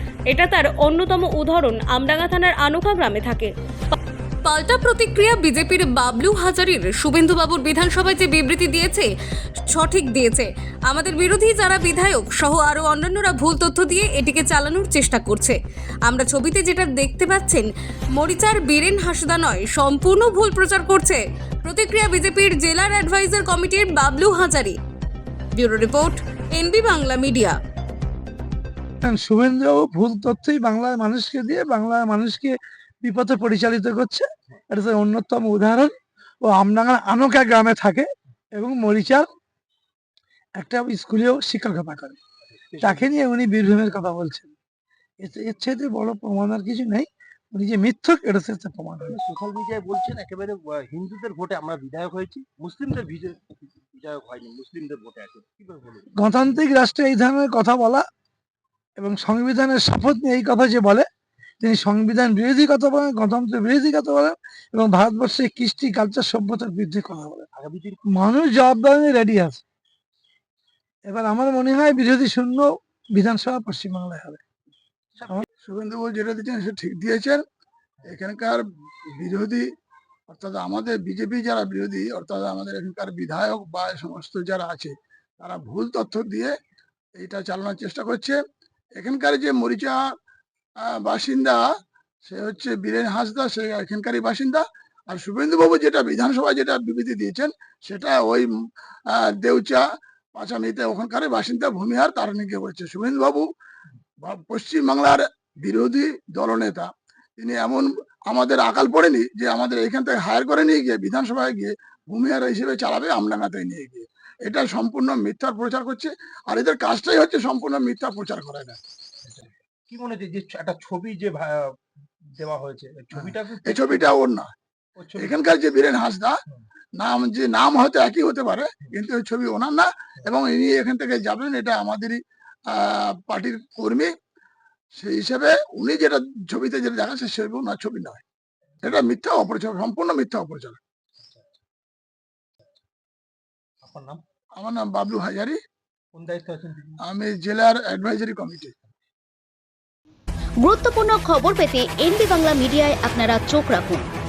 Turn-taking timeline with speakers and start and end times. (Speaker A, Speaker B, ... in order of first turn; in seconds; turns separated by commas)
Speaker A: 0.3-3.5, Speaker A: 4.4-9.1, Speaker A: 9.7-24.8, Speaker A: 25.5-27.6, Speaker B: 29.0-39.3, Speaker B: 40.6-42.2, Speaker C: 42.7-43.1, Speaker B: 42.8-44.5, Speaker B: 45.2-49.2, Speaker C: 49.0-56.1, Speaker B: 56.1-58.0, Speaker B: 59.0-61.1, Speaker B: 61.6-67.5, Speaker C: 67.5-68.0, Speaker B: 68.1-69.6, Speaker B: 71.1-74.4, Speaker C: 75.2-75.5, Speaker D: 75.6-77.4, Speaker D: 78.1-79.7, Speaker D: 80.3-86.5, Speaker D: 87.2-88.4, Speaker D: 89.0-90.0, Speaker D: 90.8-91.7, Speaker D: 92.3-98.5, Speaker D: 99.1-99.8, Speaker D: 100.3-103.5, Speaker D: 104.2-118.8, Speaker C: 119.2-121.8, Speaker C: 122.4-124.2, Speaker D: 123.1-124.5, Speaker C: 125.0-125.5, Speaker D: 125.2-126.4, Speaker D: 127.0-132.2, Speaker D: 132.7-134.1, Speaker D: 135.0-138.2, Speaker C: 138.8-139.1, Speaker D: 138.8-140.8, Speaker C: 141.2-141.6, Speaker C: 143.8-144.2, Speaker D: 144.6-145.6, Speaker C: 146.1-147.0, Speaker D: 147.0-148.8, Speaker E: 150.6-154.1